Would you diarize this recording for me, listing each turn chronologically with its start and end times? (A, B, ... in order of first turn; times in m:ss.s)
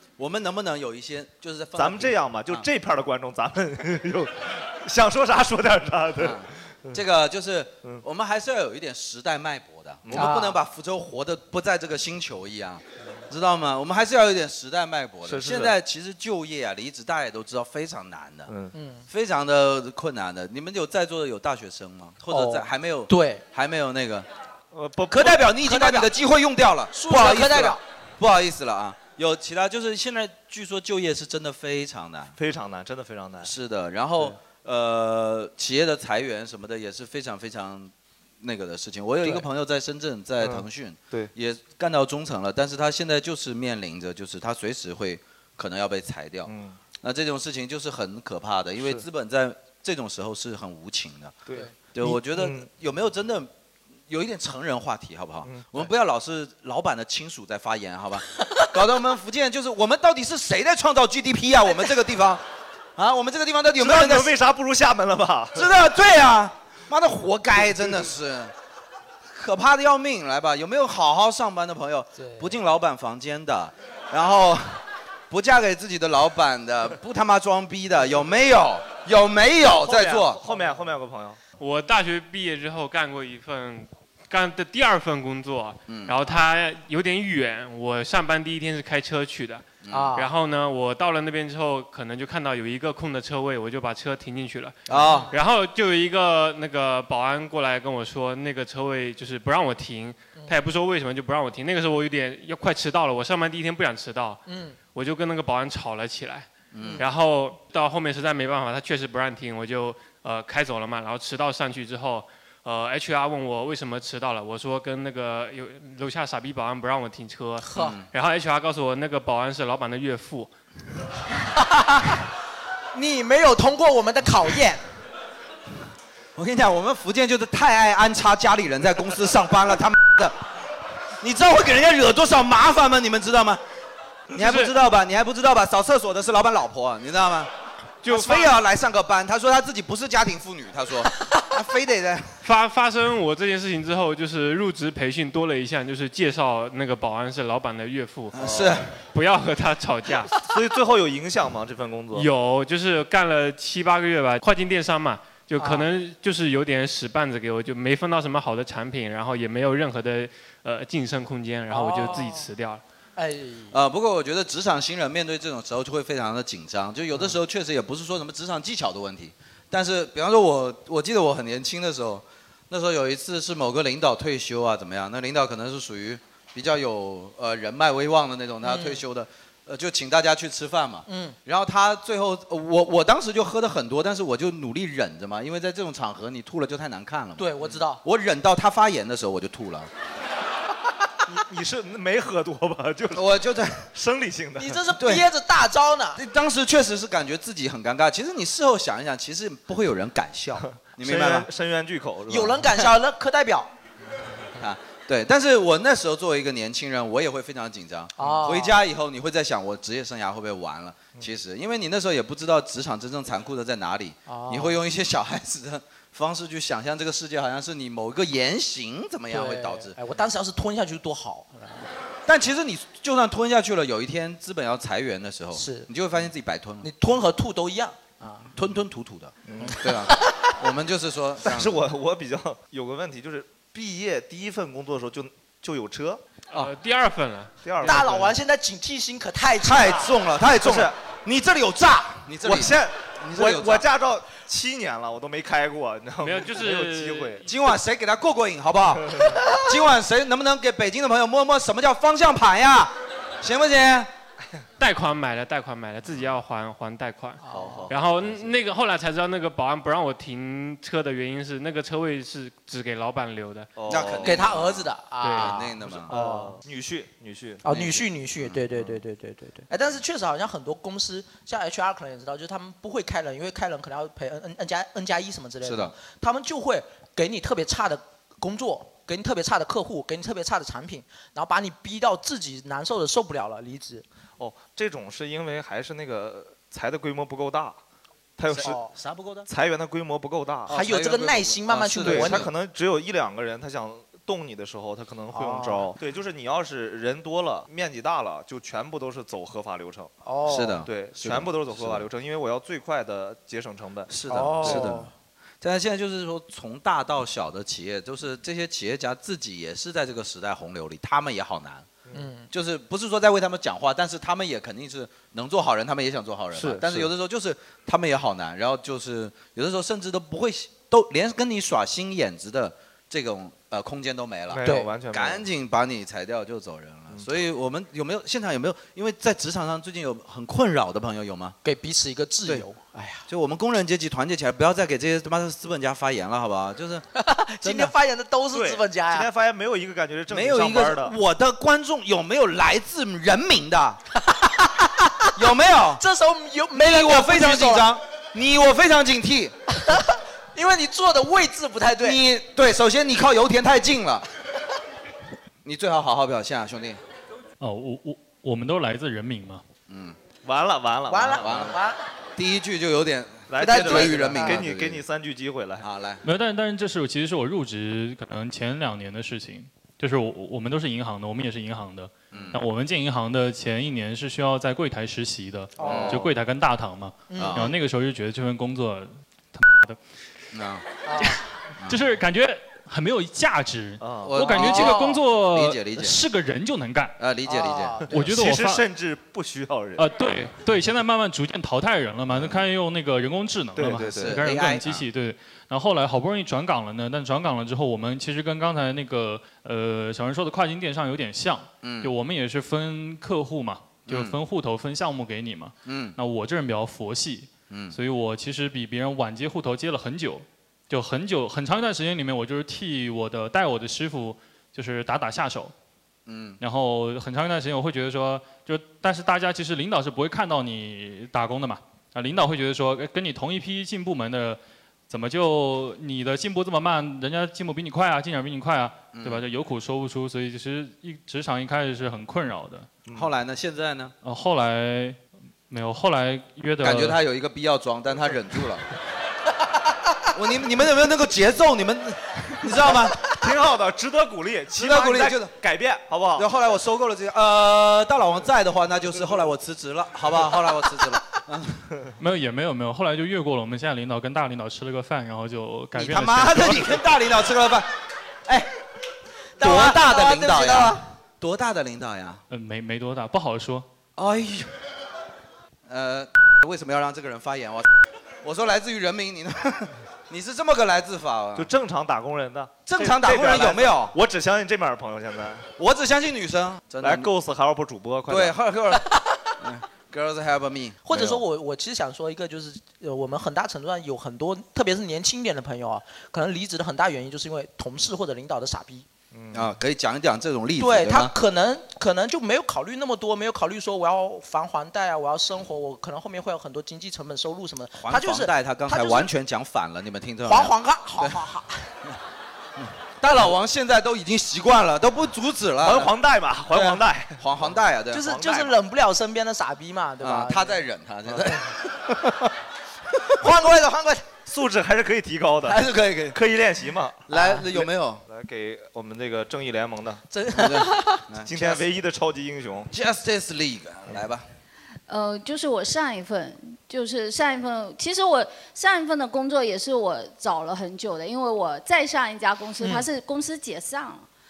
0:00.2-0:02.6 A
0:01.8-0:07.0 B
0:06.2-0:18.5 A
0:10.0-0:10.3 B
0:10.1-0:10.6 C
0:15.2-0:15.8 B
0:18.5-0:18.8 B
0:18.7-0:19.0 C
0:19.1-0:24.3 A
0:22.3-0:23.4 C
0:24.7-0:25.4 B
0:25.1-0:32.4 A
0:25.6-0:26.1 C
0:26.9-0:27.8 C
0:32.4-0:33.5 B
0:33.4-0:51.4 A
0:40.4-0:41.3 B
0:46.5-0:46.8 B
0:48.8-0:49.0 B
0:51.5-0:52.7 B
0:51.9-0:53.5 A
0:54.1-1:02.4 A
0:55.4-0:55.9 B
1:03.0-1:04.3 A
1:03.8-1:05.7 B
1:05.6-1:08.5 A
1:09.3-1:20.4 A
1:12.2-1:12.5 C
1:19.8-1:21.4 B
1:21.6-1:29.6 D
1:25.9-1:26.1 A
1:29.8-1:30.1 A
1:29.9-1:30.3 C
1:30.2-1:34.8 D
1:34.9-1:35.3 A
1:34.9-1:35.3 C
1:35.3-1:44.4 D
1:44.5-1:44.8 C
1:44.9-2:00.5 D
1:46.7-1:47.0 A
1:57.6-1:58.0 C
1:57.8-1:58.1 A
2:01.7-2:02.1 C
2:02.9-2:04.8 C
2:06.4-2:10.4 A
2:11.2-2:13.6 A
2:14.3-2:17.5 A
2:14.4-2:14.7 D
2:18.0-2:22.3 A
2:18.0-2:18.5 D
2:22.4-2:28.4 D
2:28.4-2:28.9 A
2:28.4-2:28.7 B
2:29.1-2:30.3 D
2:30.4-2:32.3 B
2:32.2-2:42.8 D
2:35.6-2:35.9 C
2:41.7-2:42.5 C
2:43.2-2:43.8 C
2:43.7-3:09.9 A
2:58.6-2:59.0 C
3:01.1-3:01.4 C
3:07.4-3:08.0 C
3:11.3-3:13.2 B
3:13.2-3:13.9 A
3:13.9-3:14.8 B
3:14.6-3:16.2 C
3:15.0-3:15.3 A
3:16.2-3:21.5 A
3:20.6-3:22.7 B
3:22.3-3:23.7 C
3:24.6-3:40.0 A
3:28.2-3:28.8 C
3:34.3-3:34.8 C
3:39.3-3:41.9 C
3:42.3-3:46.9 A
3:45.6-3:45.9 C
3:46.8-3:48.5 C
3:48.6-3:51.8 A
3:49.5-3:49.8 B
3:49.7-3:50.5 C
3:51.4-3:56.2 B
3:56.5-3:58.2 D
3:57.6-3:58.3 B
3:57.8-4:00.1 C
3:59.6-4:03.9 A
4:00.6-4:00.9 B
4:02.4-4:07.5 B
4:06.2-4:07.5 D
4:07.5-4:14.1 A
4:14.8-4:23.7 D
4:17.4-4:17.9 C
4:17.5-4:18.4 B
4:23.8-4:24.5 B
4:23.9-4:26.1 A
4:24.2-4:26.6 C
4:25.2-4:25.6 D
4:26.1-4:28.1 B
4:27.6-4:44.0 C
4:35.6-4:35.9 A
4:44.4-4:47.8 B
4:48.4-4:48.8 B
4:48.5-4:49.5 A
4:48.6-4:48.9 C
4:49.5-4:50.8 B
4:50.7-4:52.5 C
4:50.7-4:52.5 A
4:52.0-5:00.1 B
4:55.3-4:55.9 C
5:00.2-5:00.8 C
5:00.5-5:02.0 A
5:00.8-5:04.9 B
5:04.1-5:05.1 A
5:04.3-5:05.1 C
5:05.6-5:11.9 A
5:12.1-5:12.5 C
5:12.5-5:31.6 A
5:16.5-5:17.1 B
5:24.5-5:25.4 B
5:24.6-5:24.9 C
5:31.6-5:33.2 C
5:33.3-5:37.0 A
5:37.2-5:39.3 C
5:37.6-5:37.9 A
5:38.5-5:41.2 B
5:40.3-5:44.0 A
5:44.3-5:45.2 C
5:45.4-5:46.0 A
5:46.0-5:47.8 C
5:46.7-5:49.5 A
5:49.8-5:52.2 C
5:52.0-5:54.3 A
5:55.6-5:57.0 A
5:57.6-5:59.6 E
5:59.9-6:00.2 A
6:00.4-6:01.7 B
6:01.1-6:02.0 C
6:01.4-6:01.8 A
6:02.4-6:05.0 A
6:03.5-6:05.8 B
6:03.6-6:04.6 C
6:05.8-6:06.2 A
6:06.2-6:20.0 E
6:12.3-6:12.6 A
6:15.8-6:16.2 C
6:15.8-6:16.3 A
6:17.3-6:17.7 C
6:17.4-6:17.7 A
6:20.5-6:20.8 A
6:21.1-6:21.4 C
6:21.9-6:27.2 E
6:24.0-6:24.4 B
6:24.2-6:26.2 A
6:24.4-6:25.2 C
6:27.2-6:28.0 A
6:27.5-6:28.2 C
6:28.1-6:28.8 E
6:28.1-6:30.1 B
6:30.0-6:55.7 E
6:32.3-6:32.6 A
6:33.8-6:34.4 B
6:34.0-6:35.0 A
6:41.8-6:42.1 A
6:44.1-6:44.4 A
6:45.9-6:46.2 A
6:47.7-6:48.0 A
6:56.3-6:56.6 A
6:56.6-7:12.9 E
7:09.1-7:09.4 A
7:13.1-7:14.1 A
7:14.2-7:15.2 E
7:15.7-7:17.2 E
7:16.8-7:18.8 A
7:20.3-7:23.2 A
7:23.3-7:26.5 B
7:24.8-7:25.5 A
7:26.4-7:31.9 A
7:32.2-7:36.9 E
7:36.0-7:37.9 A
7:39.6-7:41.0 C
7:39.6-7:42.4 A
7:42.5-7:43.9 E
7:44.2-7:44.7 A
7:45.9-7:47.9 A
7:48.4-7:51.7 A
7:51.6-7:55.7 B
7:52.9-7:54.1 A
7:55.8-7:57.3 A
7:57.0-7:58.6 B
7:58.3-7:59.1 A
7:59.6-8:01.4 A
8:01.1-8:09.1 C
8:09.3-8:09.8 B
8:09.5-8:11.3 A
8:10.8-8:19.3 C
8:18.0-8:21.4 A
8:20.4-8:21.8 C
8:22.8-8:26.1 A
8:25.8-8:28.7 B
8:26.7-8:28.4 A
8:28.1-8:30.8 C
8:30.2-8:31.7 A
8:31.3-8:31.5 B
8:33.4-8:34.2 C
8:34.5-8:35.8 B
8:35.6-8:36.4 A
8:36.3-8:37.2 B
8:37.3-8:38.2 A
8:37.3-8:37.6 C
8:38.3-8:40.2 B
8:40.3-8:41.2 C
8:40.5-8:41.8 A
8:41.4-8:42.9 B
8:42.9-8:44.4 A
8:45.1-8:54.3 F